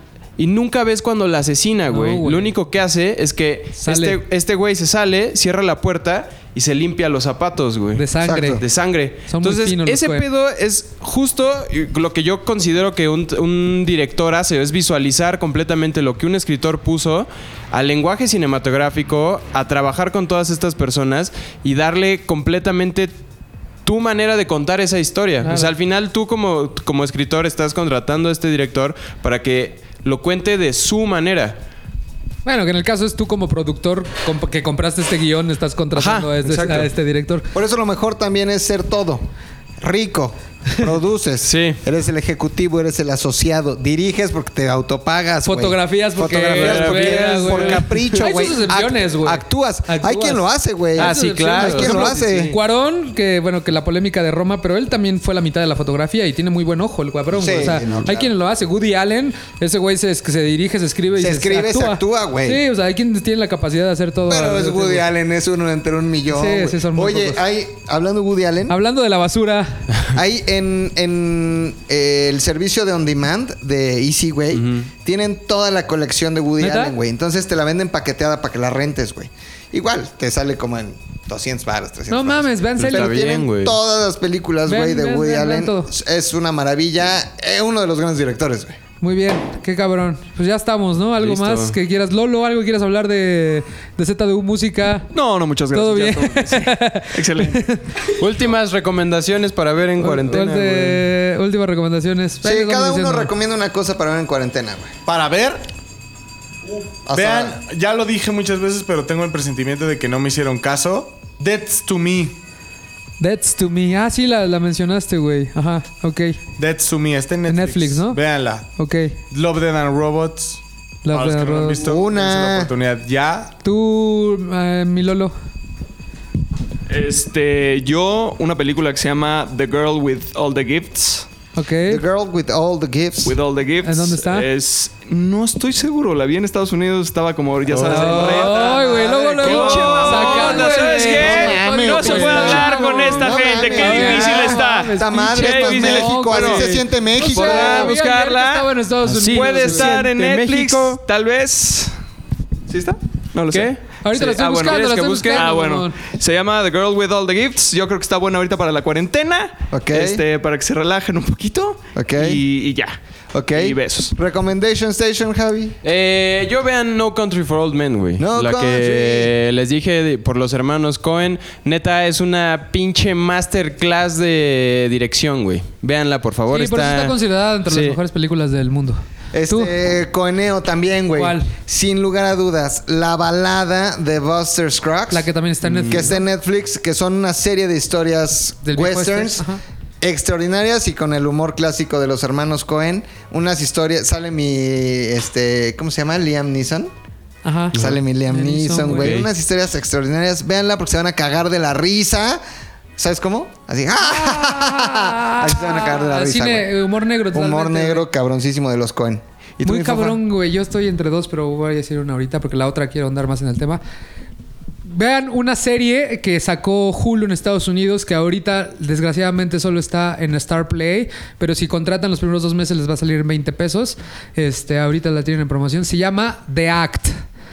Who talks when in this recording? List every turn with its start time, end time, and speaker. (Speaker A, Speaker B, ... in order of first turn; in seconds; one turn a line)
Speaker A: 0.4-8.1
Speaker B: 1.9-2.5
Speaker B: 3.8-4.2
Speaker B: 7.9-8.6
Speaker C: 8.2-8.6
Speaker A: 8.6-23.1
Speaker B: 9.3-10.2
Speaker A: 23.8-31.6
Speaker B: 25.4-25.7
Speaker B: 32.4-37.5
Speaker A: 35.9-36.8
Speaker C: 36.5-36.8
Speaker C: 37.5-39.2
Speaker C: 39.8-52.6
Speaker A: 41.4-41.8
Speaker B: 45.4-65.0
Speaker A: 46.5-48.3
Speaker A: 51.0-52.6
Speaker C: 57.3-58.3
Speaker C: 61.1-62.6
Speaker C: 64.3-68.8
Speaker B: 66.3-67.4
Speaker B: 68.7-69.9
Speaker C: 70.1-88.8
Speaker A: 74.5-74.8
Speaker B: 76.6-76.9
Speaker B: 82.1-83.3
Speaker A: 82.8-83.8
Speaker B: 84.7-85.9
Speaker B: 89.0-95.1
Speaker A: 91.2-91.7
Speaker D: 95.1-97.6
Speaker B: 95.7-97.9
Speaker A: 98.2-101.0
Speaker B: 100.0-103.3
Speaker C: 102.4-105.6
Speaker E: 105.1-105.5
Speaker E: 106.6-112.4
Speaker C: 107.0-107.6
Speaker B: 113.2-116.4
Speaker E: 116.6-118.7
Speaker B: 117.5-118.2
Speaker B: 118.8-119.2
Speaker E: 119.3-123.5
Speaker B: 121.0-121.8
Speaker C: 121.8-122.7
Speaker B: 123.6-125.3
Speaker D: 126.9-131.3
Speaker B: 131.6-132.0
Speaker C: 131.9-133.3
Speaker D: 133.2-146.7
Speaker B: 133.8-134.5
Speaker C: 137.7-140.4
Speaker A: 137.7-138.3
Speaker B: 137.7-150.1
Speaker A: 139.4-141.5
Speaker C: 141.1-147.9
Speaker A: 142.1-144.9
Speaker A: 147.3-148.6
Speaker D: 147.4-152.0
Speaker A: 149.2-151.0
Speaker D: 152.7-163.0
Speaker A: 153.5-153.8
Speaker B: 154.0-156.0
Speaker A: 155.0-155.4
Speaker C: 159.7-160.2
Speaker C: 161.9-162.4
Speaker C: 163.3-165.8
Speaker D: 163.5-164.1
Speaker A: 165.8-177.1
Speaker C: 168.2-169.3
Speaker B: 176.5-179.7
Speaker A: 177.7-178.0
Speaker C: 179.3-185.3
Speaker B: 181.2-181.5
Speaker B: 185.1-186.2
Speaker A: 185.7-186.1
Speaker C: 185.8-189.5
Speaker B: 188.6-189.6
Speaker C: 190.0-196.9
Speaker B: 197.4-199.2
Speaker C: 197.7-202.4
Speaker A: 198.8-199.3
Speaker C: 203.0-206.7
Speaker B: 204.0-208.0
Speaker C: 207.3-210.2
Speaker B: 209.6-213.8
Speaker B: 214.8-227.2